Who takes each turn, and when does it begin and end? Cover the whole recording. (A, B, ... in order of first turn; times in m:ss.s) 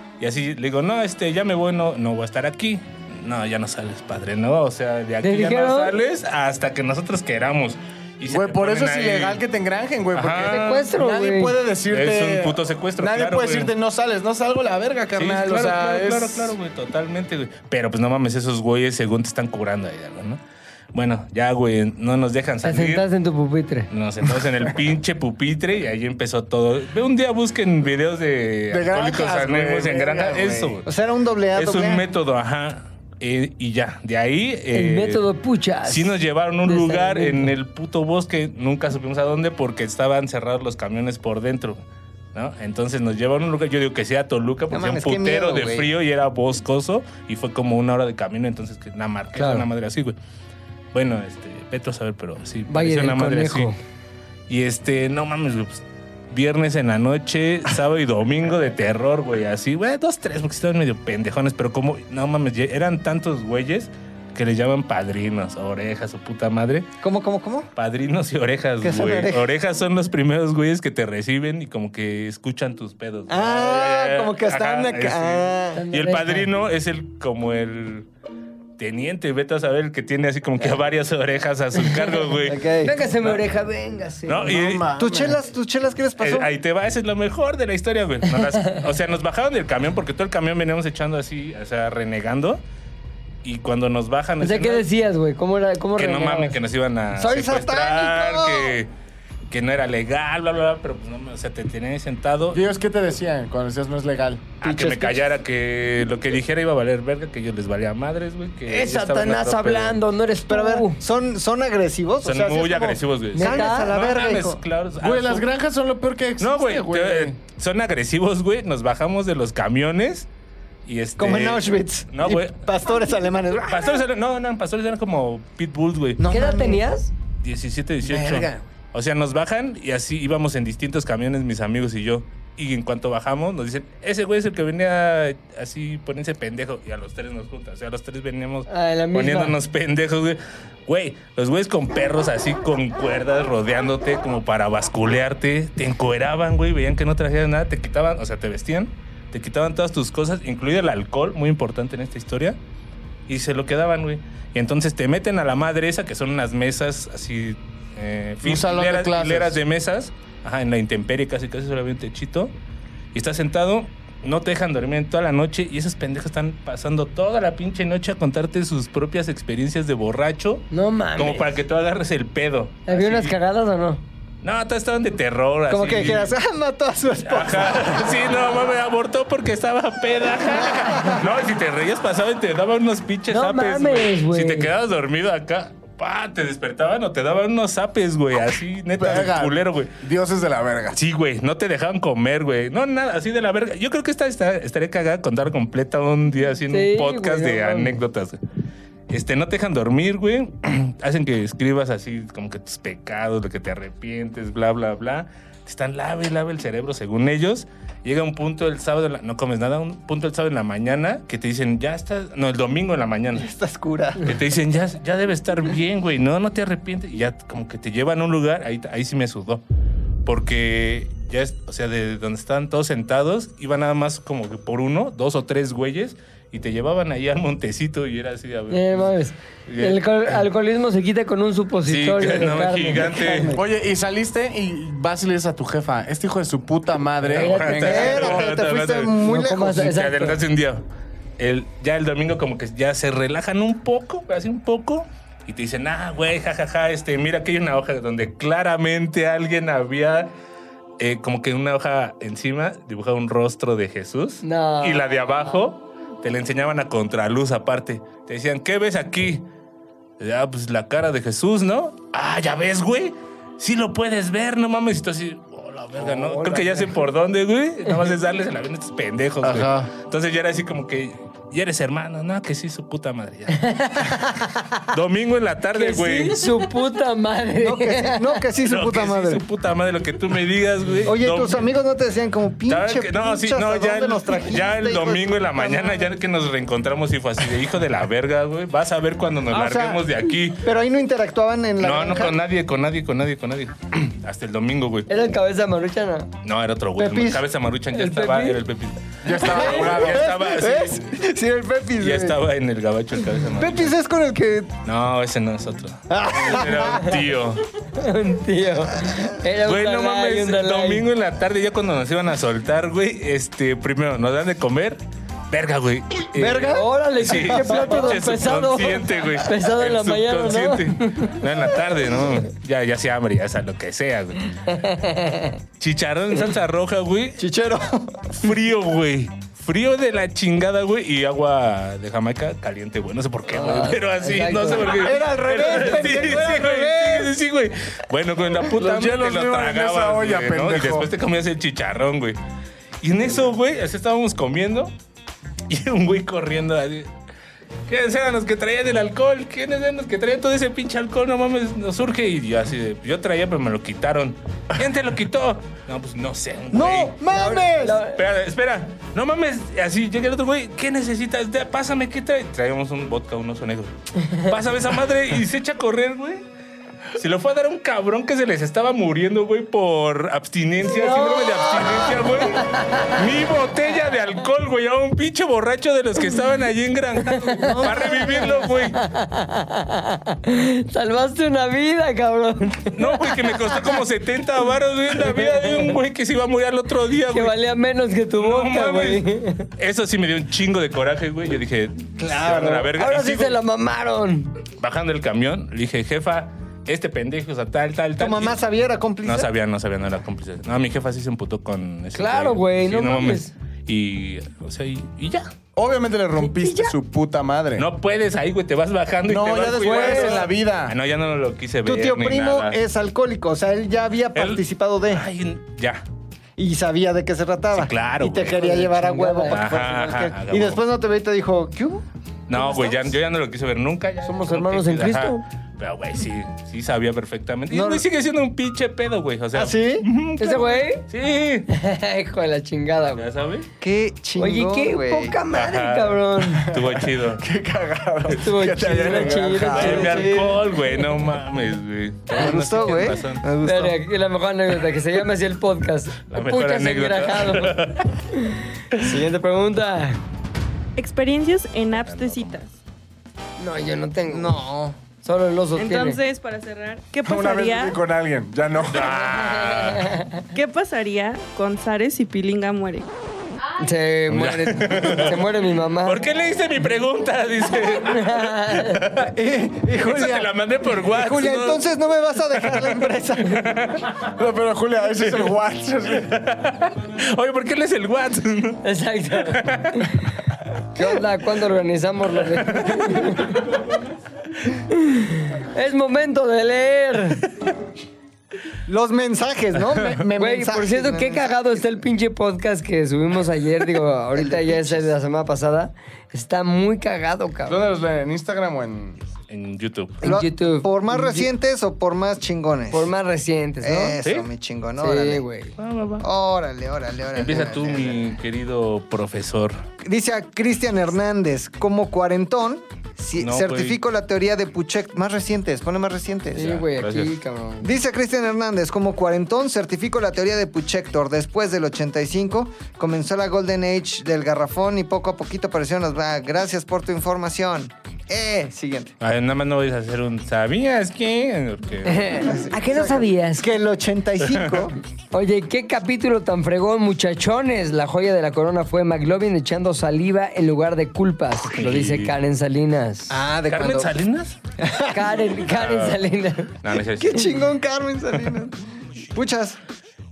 0:00.2-0:09.4 A
0:05.2-0:05.9 B
0:08.3-0:16.6 C
0:10.1-0:10.9 A
0:10.4-0:11.6 B
0:11.9-0:13.7 A
0:15.2-0:20.4 A
0:20.9-0:23.0 A
0:22.6-0:23.9 B
0:23.9-0:30.8 A
0:28.7-0:30.8 C
0:30.8-0:32.0 D
0:31.5-0:35.2 A
0:34.7-0:36.1 B
0:35.9-0:41.8 A
0:36.6-0:37.5 B
0:42.3-0:50.2 A
0:44.7-0:45.9 D
0:49.4-0:49.6 B
0:50.9-0:53.7 A
0:52.7-0:53.8 B
0:54.5-1:06.9 A
1:07.0-1:07.7 D
1:07.8-1:18.1 A
1:08.8-1:09.4 D
1:13.3-1:15.8 D
1:15.7-1:16.5 B
1:18.8-1:22.6 A
1:21.8-1:22.2 B
1:22.4-1:22.9 D
1:22.8-1:24.6 B
1:24.2-1:24.8 A
1:24.4-1:25.4 C
1:25.0-1:26.5 D
1:26.2-1:32.6 A
1:33.4-1:34.8 A
1:34.4-1:36.6 B
1:36.0-1:38.9 A
1:37.1-1:38.7 D
1:39.5-1:42.6 A
1:42.5-1:44.5 C
1:44.6-1:45.2 D
1:44.6-1:50.0 A
1:48.7-1:51.0 B
1:50.5-1:54.6 D
1:52.2-1:55.5 A
1:53.3-1:53.9 B
1:55.0-1:57.4 C
1:56.4-2:00.3 A
2:00.8-2:02.6 A
2:01.2-2:04.0 D
2:03.7-2:06.2 A
2:06.2-2:06.8 D
2:06.2-2:07.1 B
2:07.4-2:32.6 A
2:08.0-2:08.6 D
2:18.7-2:19.5 B
2:33.3-2:42.5 A
2:38.4-2:39.6 C
2:43.1-2:53.3 A
2:50.7-2:51.5 B
2:52.9-2:54.0 B
2:54.4-2:56.4 A
2:55.7-2:58.1 D
2:57.2-3:09.9 A
3:00.7-3:01.2 D
3:03.3-3:04.7 B
3:09.0-3:11.0 C
3:10.9-3:18.4 A
3:16.7-3:18.0 B
3:19.1-3:33.5 A
3:33.3-3:34.4 D
3:34.2-3:39.6 A
3:40.2-3:49.1 A
3:48.7-3:53.4 B
3:49.7-3:50.4 A
3:51.8-3:53.6 A
3:53.0-3:53.6 D
3:53.5-3:58.4 C
3:57.2-4:00.8 A
3:57.3-3:58.3 B
3:57.8-3:59.9 D
3:59.2-4:00.4 B
4:01.4-4:10.3 A
4:11.0-4:19.4 A
4:14.4-4:15.2 B
4:20.2-4:34.2 A
4:29.4-4:29.9 C
4:33.5-4:34.8 B
4:34.8-4:36.4 A
4:35.7-4:38.4 B
4:37.6-4:39.4 D
4:38.6-4:41.7 A
4:41.0-4:46.1 D
4:42.7-4:50.6 A
4:49.5-4:50.0 D
4:50.6-4:52.4 D
4:51.8-4:55.1 A
4:55.1-4:56.3 B
4:56.4-5:01.1 A
4:57.0-4:57.4 D
4:57.9-4:58.6 B
4:59.2-5:00.5 C
4:59.4-5:02.4 D
5:02.0-5:03.9 A
5:03.5-5:04.7 D
5:04.8-5:07.6 A
5:06.1-5:07.2 D
5:07.9-5:11.0 B
5:09.6-5:24.5 A
5:16.3-5:18.2 D
5:16.7-5:21.4 B
5:24.6-5:25.6 B
5:25.8-5:27.4 A
5:27.4-5:28.4 D
5:28.4-5:42.4 A
5:33.5-5:35.1 B
5:34.9-5:37.3 D
5:38.7-5:41.1 C
5:43.0-5:44.9 A
5:45.7-5:47.1 A
5:47.9-5:57.2 A
5:56.7-5:58.0 D
5:57.3-5:58.2 B
5:58.1-6:06.4 A
6:07.2-6:19.0 A
6:10.8-6:13.2 B
6:17.3-6:23.6 B
6:17.6-6:18.5 D
6:22.9-6:27.6 A
6:25.1-6:26.0 B
6:27.3-6:29.7 B
6:28.4-6:29.2 A
6:29.8-6:33.6 A
6:32.2-6:33.1 D
6:33.0-6:34.5 B
6:34.8-6:38.6 A
6:38.2-6:39.5 D
6:39.2-6:45.5 A
6:42.1-6:43.5 B
6:45.8-6:47.9 C
6:46.4-6:46.9 B
6:47.8-6:52.8 A
6:49.3-6:51.0 C
6:49.9-6:50.4 D
6:51.8-6:55.2 D
6:54.3-6:56.0 A
6:56.6-7:03.1 D
6:57.7-6:58.8 A
6:58.5-6:59.6 B
6:59.4-7:00.8 A
7:02.5-7:11.7 A
7:04.2-7:05.4 B
7:07.7-7:08.0 D
7:09.5-7:10.0 D
7:10.4-7:11.0 B
7:11.7-7:13.2 B
7:13.1-7:13.7 A
7:13.8-7:15.4 D
7:14.4-7:16.7 B
7:15.5-7:17.4 A
7:16.7-7:20.5 C
7:18.3-7:21.0 B
7:19.0-7:23.4 A
7:22.3-7:24.0 D
7:23.6-7:30.2 B
7:26.3-7:28.1 A
7:31.0-7:32.7 E
7:32.0-7:32.6 A
7:33.6-7:34.6 B
7:34.3-7:35.0 D
7:35.2-7:36.2 B
7:35.7-7:38.0 E
7:37.2-7:39.2 C
7:38.9-7:40.2 A
7:39.1-7:40.4 B
7:40.5-7:43.1 E
7:43.8-7:46.2 B
7:44.3-7:45.4 A
7:46.0-7:49.3 A
7:47.8-7:49.0 B
7:49.2-7:53.8 D
7:49.9-7:54.1 A
7:54.3-7:56.3 C
7:55.2-7:55.5 A
7:56.1-7:58.8 A
7:58.8-8:00.2 B
7:59.4-8:00.1 A
8:00.9-8:03.7 B
8:02.5-8:03.6 A
8:04.9-8:07.5 B
8:08.9-8:11.5 D
8:10.4-8:17.8 B
8:14.3-8:15.1 D
8:17.7-8:19.2 C
8:19.5-8:20.2 A
8:20.2-8:21.5 B
8:20.2-8:23.1 D
8:22.9-8:24.2 B
8:23.8-8:25.4 D
8:24.2-8:24.5 A
8:25.0-8:25.7 B
8:25.8-8:26.2 A
8:26.2-8:28.2 D
8:27.3-8:29.8 A
8:30.0-8:36.7 D
8:33.4-8:34.0 A
8:36.5-8:37.9 B
8:36.6-8:37.3 A
8:37.8-8:49.1 D
8:49.2-8:52.5 A
8:52.0-8:53.8 B
8:52.4-8:55.0 D
8:54.4-8:54.7 A
8:55.3-9:03.4 B
9:01.8-9:02.3 A
9:03.3-9:04.1 D
9:03.7-9:04.6 A
9:04.8-9:05.2 D
9:05.1-9:06.8 B
9:05.6-9:06.2 A
9:06.8-9:07.6 A
9:07.2-9:08.8 D
9:09.3-9:09.8 D